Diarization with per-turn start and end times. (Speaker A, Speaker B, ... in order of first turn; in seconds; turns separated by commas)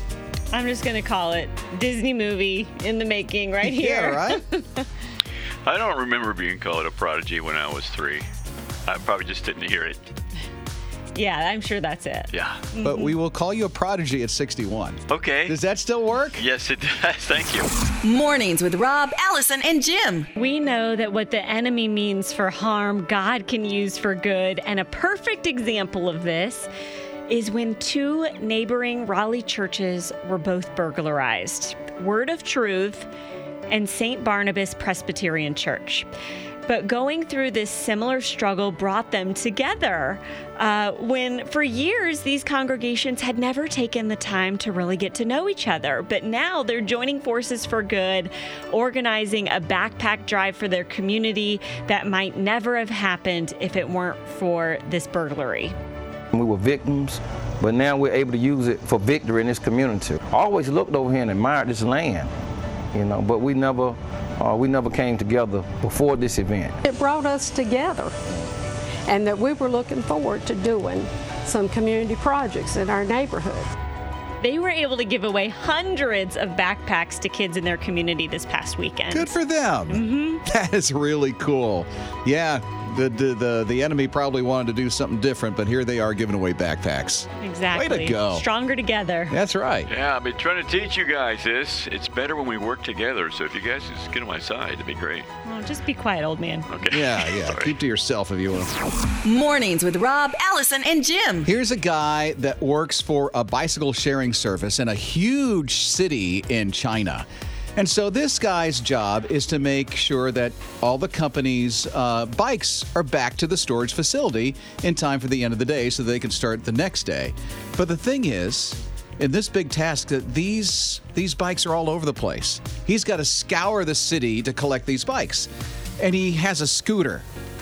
Speaker A: 0.5-4.9, Speaker B: 3.6-4.4, Speaker C: 5.7-8.3, Speaker C: 8.9-10.0, Speaker A: 11.2-13.2, Speaker C: 12.3-12.6, Speaker B: 12.8-16.4, Speaker C: 15.1-15.6, Speaker C: 16.4-17.7, Speaker D: 18.0-20.3, Speaker A: 20.4-26.7, Speaker A: 27.3-33.1, Speaker A: 33.7-36.1, Speaker A: 36.7-55.8, Speaker E: 56.3-62.3, Speaker E: 62.9-66.8, Speaker F: 66.8-68.1, Speaker F: 69.1-73.7, Speaker A: 74.4-79.3, Speaker B: 79.1-88.5, Speaker A: 79.9-80.4, Speaker A: 87.4-89.3, Speaker B: 89.3-89.9, Speaker C: 89.9-95.3, Speaker A: 95.5-96.7, Speaker C: 96.7-97.8, Speaker B: 96.9-98.7, Speaker D: 99.2-101.5, Speaker B: 101.5-127.3